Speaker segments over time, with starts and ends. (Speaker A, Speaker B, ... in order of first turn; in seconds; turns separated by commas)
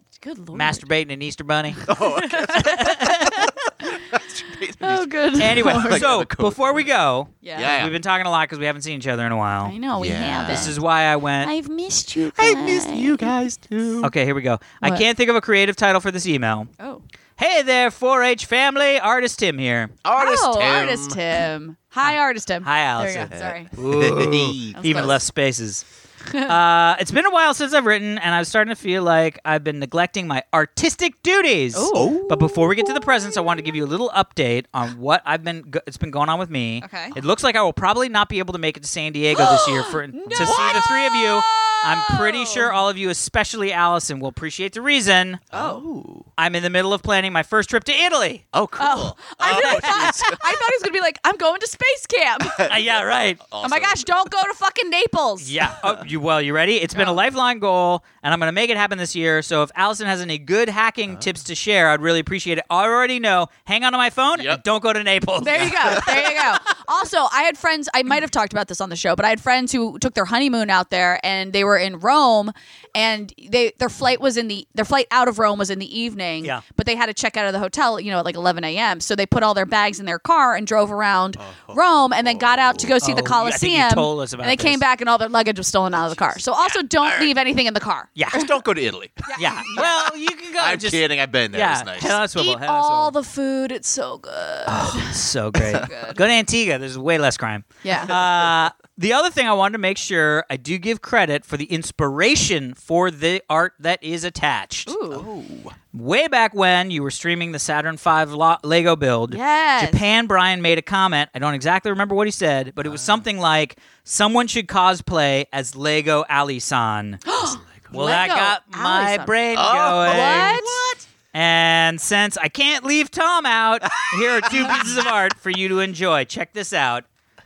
Speaker A: 0.2-0.9, Speaker B: 0.5-1.9, Speaker A: 1.8-4.0, Speaker C: 1.9-6.8, Speaker B: 2.6-3.5, Speaker A: 4.8-6.1, Speaker B: 5.4-9.7, Speaker A: 7.4-7.8, Speaker C: 7.5-7.9, Speaker A: 9.6-10.8, Speaker C: 9.9-10.7, Speaker B: 10.4-11.5, Speaker A: 11.4-13.3, Speaker C: 12.2-14.1, Speaker B: 14.0-16.7, Speaker A: 16.8-17.0, Speaker B: 17.4-19.9, Speaker C: 20.0-21.2, Speaker A: 20.1-23.7, Speaker B: 22.0-25.8, Speaker C: 23.3-25.1, Speaker A: 24.7-25.2, Speaker B: 26.4-45.4, Speaker A: 31.7-33.7, Speaker C: 31.9-32.4, Speaker A: 36.8-37.1, Speaker A: 39.3-42.8, Speaker C: 40.3-40.8, Speaker C: 45.5-46.3, Speaker A: 45.5-45.8, Speaker B: 46.4-48.4, Speaker C: 48.5-50.6, Speaker A: 48.8-52.6, Speaker B: 49.5-50.2, Speaker C: 52.4-52.9, Speaker B: 52.6-53.4, Speaker C: 53.4-54.1, Speaker A: 53.6-55.5, Speaker B: 55.4-66.2, Speaker A: 56.9-57.2, Speaker C: 64.3-64.6, Speaker A: 65.4-88.5, Speaker C: 65.8-66.5, Speaker C: 81.4-82.9, Speaker B: 83.0-84.8, Speaker C: 86.0-86.4, Speaker C: 87.0-87.3, Speaker C: 88.3-92.2, Speaker A: 89.2-90.0, Speaker B: 89.3-93.1, Speaker A: 92.3-95.2, Speaker B: 94.7-104.9, Speaker A: 95.7-96.2, Speaker A: 97.8-98.2, Speaker A: 104.8-105.3, Speaker C: 105.1-105.8, Speaker B: 105.9-117.2, Speaker A: 109.3-110.0, Speaker C: 112.8-113.2, Speaker A: 117.2-119.4, Speaker B: 117.9-120.7, Speaker C: 119.5-121.1, Speaker A: 120.0-120.8, Speaker B: 121.3-127.0, Speaker C: 123.9-124.9, Speaker A: 124.5-124.8